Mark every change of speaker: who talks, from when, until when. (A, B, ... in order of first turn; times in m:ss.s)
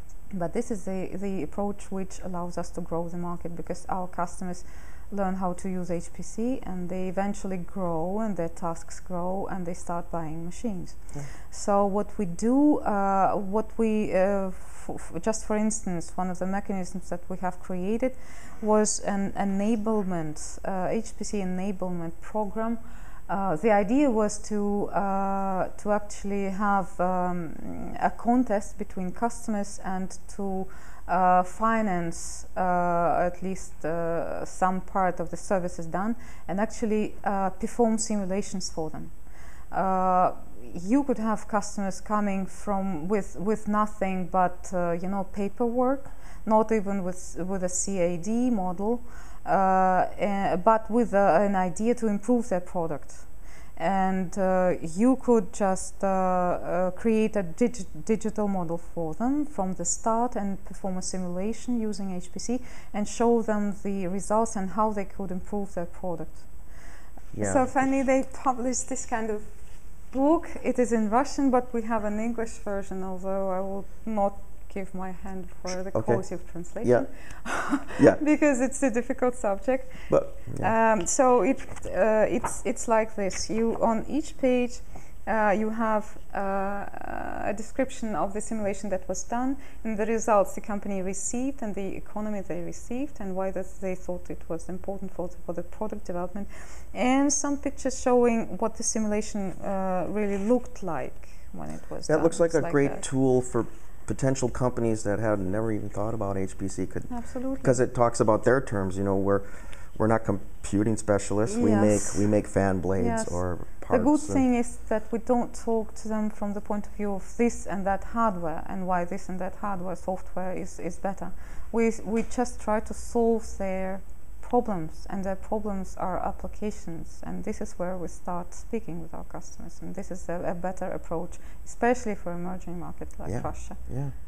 0:00.3-0:39.1 A
0:39.7-1:06.5 A
1:07.3-1:07.7 B
1:07.4-1:09.5 A
1:10.1-1:43.1 A
1:15.9-1:16.2 B
1:20.1-1:20.7 B
1:42.1-1:54.4 B
1:47.1-1:47.8 A
1:51.5-1:52.3 A
1:53.0-2:13.8 A
2:13.2-2:14.1 B